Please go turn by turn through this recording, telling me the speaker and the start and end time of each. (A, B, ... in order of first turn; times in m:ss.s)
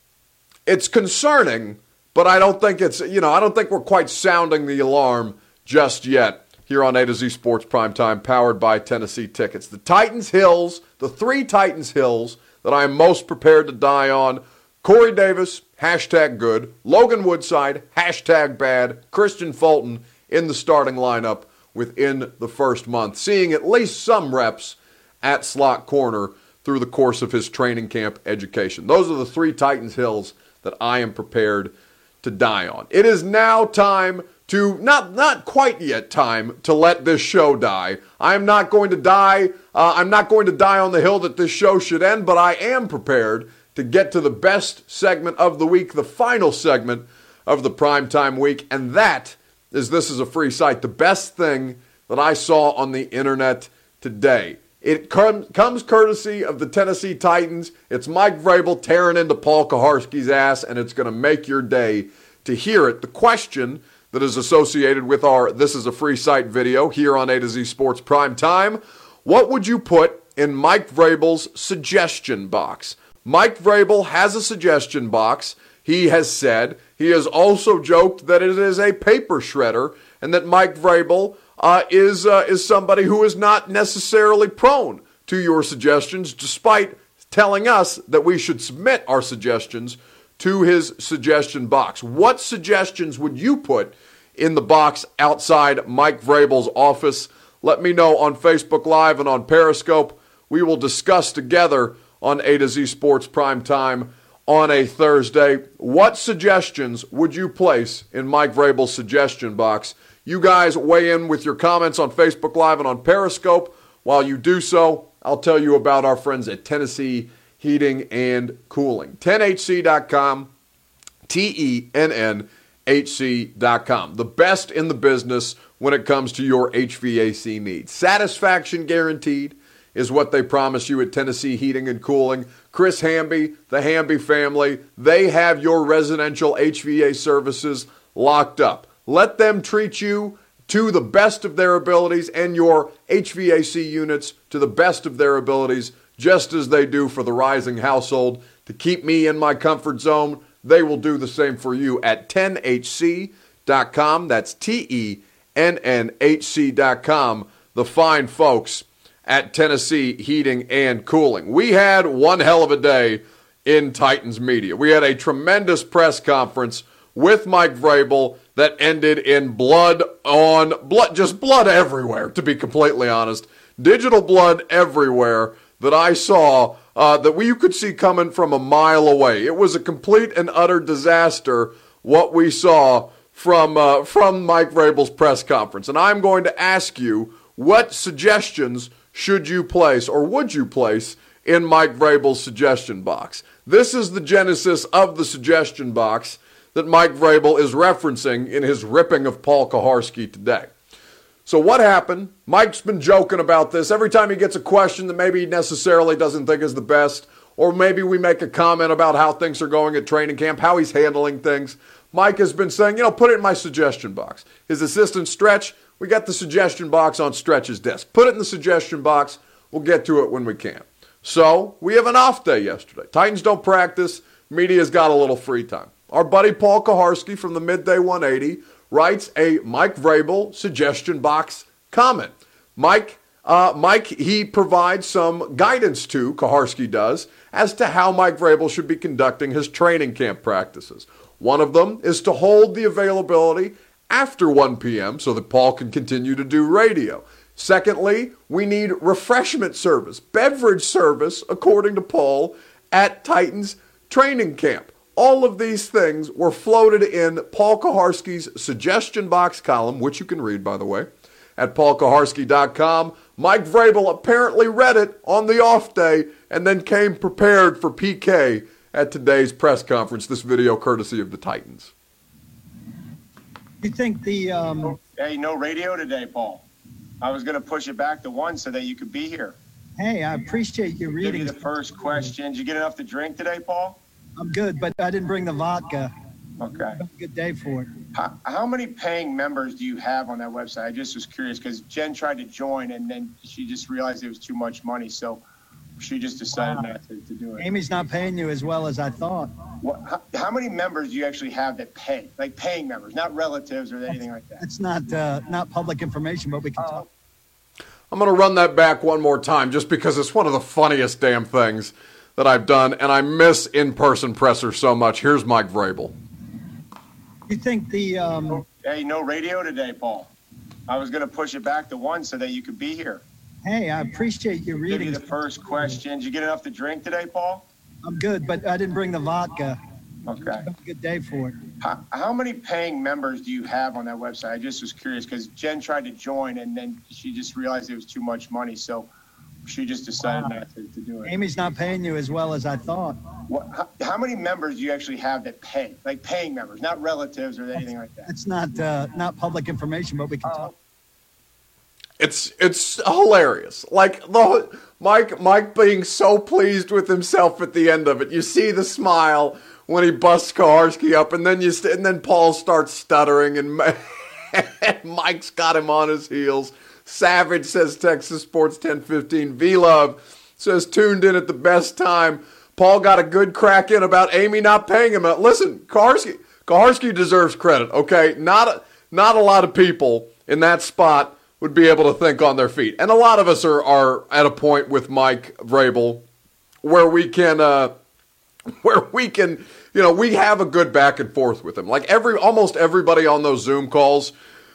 0:00.6-2:00.5 A
2:01.3-3:20.7 A
3:21.4-4:31.9 A
4:33.8-4:35.0 B
4:34.9-4:36.7 C
4:37.2-4:39.6 C
4:40.0-4:42.3 B
4:41.2-4:44.0 C
4:44.4-4:46.1 B
4:46.6-4:47.0 C
4:46.9-4:47.9 B
4:48.1-4:55.4 C
4:56.0-4:57.7 C
4:57.6-4:59.5 B
4:59.8-5:04.6 C
5:04.6-5:07.0 B
5:06.8-5:07.1 C
5:08.1-5:16.2 A
5:17.5-5:18.6 B
5:18.7-5:20.3 C
5:20.9-5:23.2 C
5:23.6-5:26.0 B
5:24.9-5:27.7 C
5:28.0-5:29.8 B
5:30.2-5:30.7 C
5:30.5-5:31.6 B
5:31.8-5:39.1 C
5:39.6-5:41.3 C
5:40.3-5:40.5 B
5:41.2-5:43.2 B
5:43.5-5:48.3 C
5:48.2-5:50.7 B
5:50.4-5:50.7 C
5:52.2-6:04.0 A
6:04.5-6:26.2 A
6:26.8-6:27.9 A
6:28.8-6:34.3 A